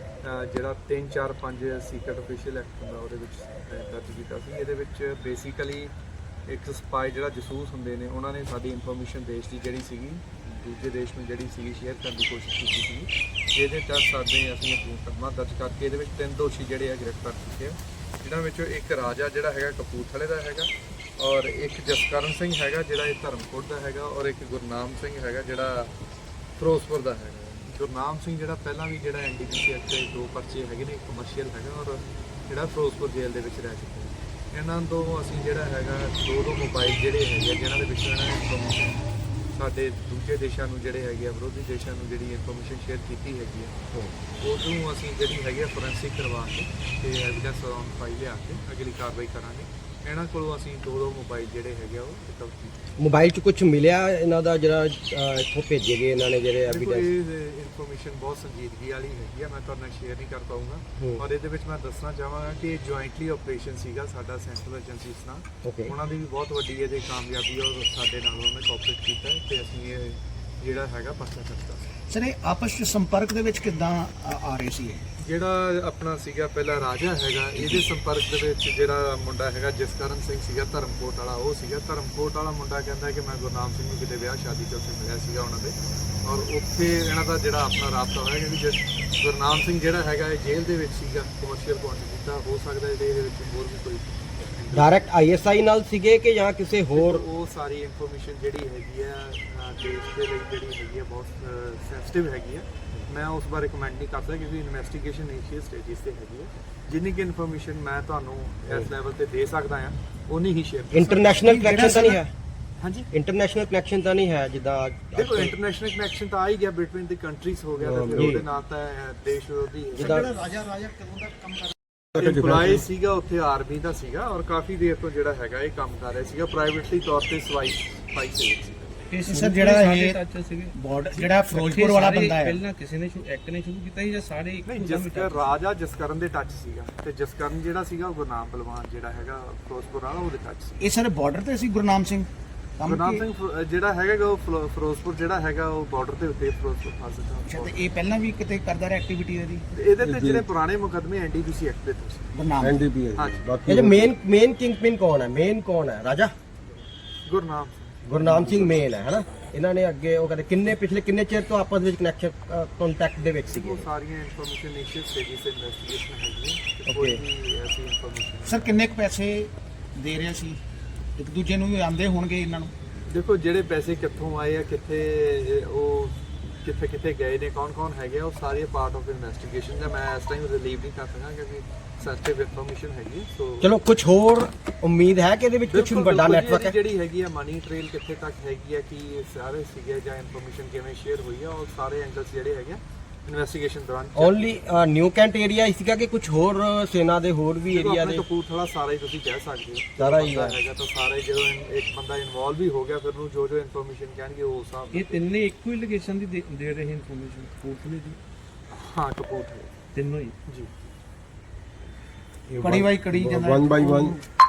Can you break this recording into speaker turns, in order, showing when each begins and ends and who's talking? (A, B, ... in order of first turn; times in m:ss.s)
0:00.2-0:05.9 A
0:06.5-0:25.9 A
0:26.6-0:43.7 A
0:44.4-0:52.8 A
0:53.0-0:57.1 B
0:56.7-1:11.8 A
1:05.6-1:05.9 B
1:12.1-1:15.0 C
1:15.2-1:34.9 A
1:34.7-1:37.2 B
1:36.9-1:51.1 A
1:50.9-1:52.3 B
1:51.1-1:52.2 C
1:52.8-1:53.1 A
1:53.1-1:55.5 B
1:55.1-2:00.3 A
1:57.8-1:58.4 D
1:58.1-1:58.4 B
2:00.0-2:00.3 B
2:00.0-2:01.8 C
2:02.1-2:02.8 D
2:02.2-2:09.0 A
2:09.1-2:10.2 C
2:09.2-2:10.7 E
2:10.7-2:12.6 C
2:11.5-2:15.5 E
2:14.6-2:20.8 A
2:20.8-2:22.3 C
2:22.8-2:23.2 C
2:22.8-2:27.7 A
2:27.5-2:29.6 C
2:29.7-2:32.3 A
2:30.0-2:30.5 D
2:32.3-2:32.8 C
2:32.6-2:34.1 D
2:33.2-2:33.4 A
2:33.7-2:36.3 B
2:37.2-2:38.5 A
2:38.0-2:43.9 B
2:43.5-2:48.7 A
2:46.9-2:47.2 B
2:48.4-2:50.6 C
2:51.2-2:52.7 C
2:53.0-3:03.7 A
3:03.6-3:06.8 B
3:05.7-3:14.6 A
3:14.1-3:18.2 B
3:17.7-3:25.2 A
3:20.0-3:20.6 B
3:24.9-3:28.2 E
3:28.7-3:29.7 A
3:29.9-3:30.3 E
3:32.5-3:34.2 D
3:32.6-3:34.2 C